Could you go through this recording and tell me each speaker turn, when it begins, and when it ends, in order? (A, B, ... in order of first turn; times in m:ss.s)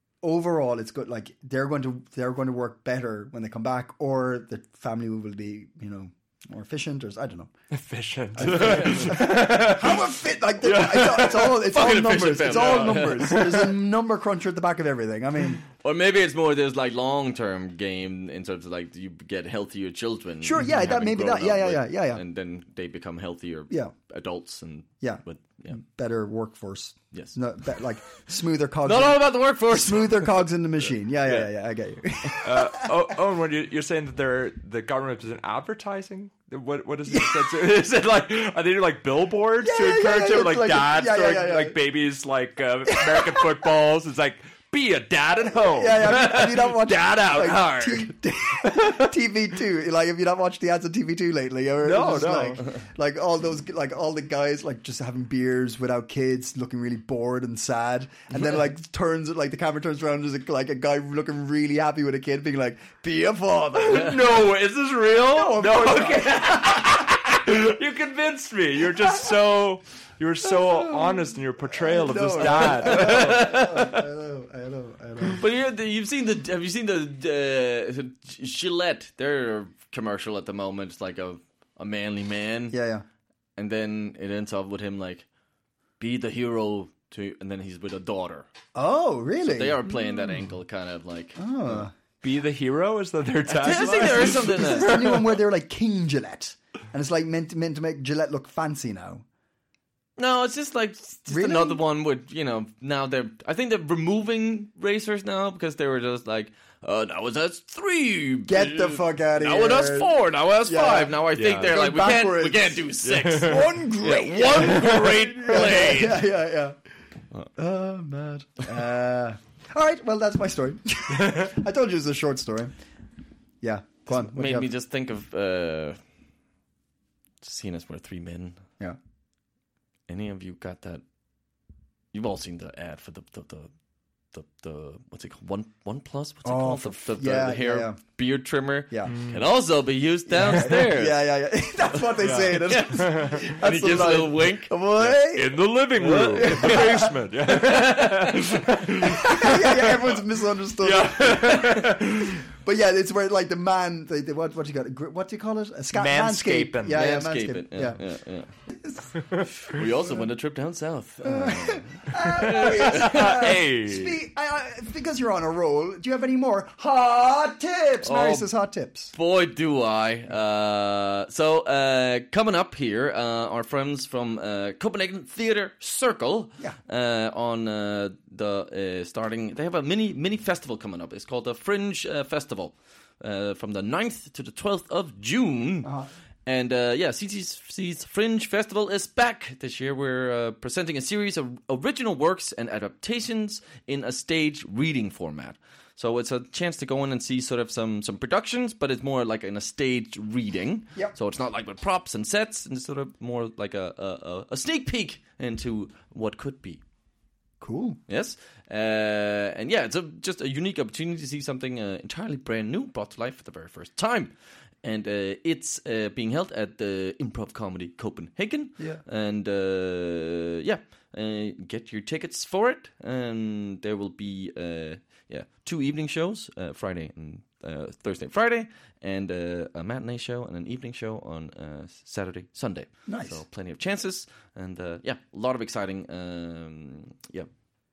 0:00.2-0:07.5 A
0:07.7-0:10.1 B
0:08.3-0:15.6 A
0:08.4-0:09.2 C
0:10.6-0:11.7 B
0:11.5-0:13.6 C
0:12.4-0:13.4 B
0:15.8-0:25.8 C
0:20.4-0:22.2 A
0:25.0-0:33.1 A
0:27.1-0:27.8 C
0:28.8-0:30.4 C
0:31.2-0:31.5 C
0:32.4-0:49.1 B
0:37.1-0:37.6 A
0:39.6-0:41.8 A
0:42.9-0:43.5 A
0:45.4-1:04.4 A
0:51.8-0:52.6 B
1:03.8-1:14.0 B
1:05.1-1:06.9 A
1:10.4-1:15.4 A
1:12.4-1:13.7 C
1:15.4-1:22.8 C
1:22.7-1:23.0 A
1:23.6-1:25.2 C
1:26.0-1:28.5 C
1:28.7-1:29.9 A
1:29.4-1:31.8 C
1:31.4-1:31.9 A
1:32.2-1:35.3 B
1:33.5-1:39.2 A
1:33.6-1:35.2 C
1:40.2-1:56.2 C
1:41.3-1:41.8 A
1:48.4-1:56.8 A
1:51.3-1:51.7 B
1:53.0-1:55.3 B
1:57.6-2:02.7 A
2:01.2-2:01.5 B
2:03.6-2:04.7 A
2:04.1-2:06.0 C
2:07.4-2:08.6 C
2:10.1-2:11.0 C
2:12.1-2:13.7 C
2:14.3-2:21.2 C
2:16.4-2:18.0 A
2:18.9-2:19.1 A
2:19.1-2:19.4 B
2:20.3-2:25.7 A
2:21.9-2:24.7 C
2:22.2-2:23.5 B
2:25.3-2:30.2 B
2:26.0-2:28.6 C
2:26.3-2:27.2 A
2:29.0-2:38.0 A
2:30.8-2:32.4 B
2:35.9-2:37.0 B
2:36.9-2:38.5 C
2:38.7-2:39.1 A
2:39.4-2:39.6 B
2:39.6-2:43.6 C
2:41.2-2:49.1 A
2:42.3-2:44.2 B
2:48.0-2:48.5 C
2:49.1-3:05.9 C
3:05.8-3:06.1 A
3:06.4-3:26.8 C
3:27.6-3:28.0 A
3:28.1-3:57.5 C
3:53.1-3:53.4 A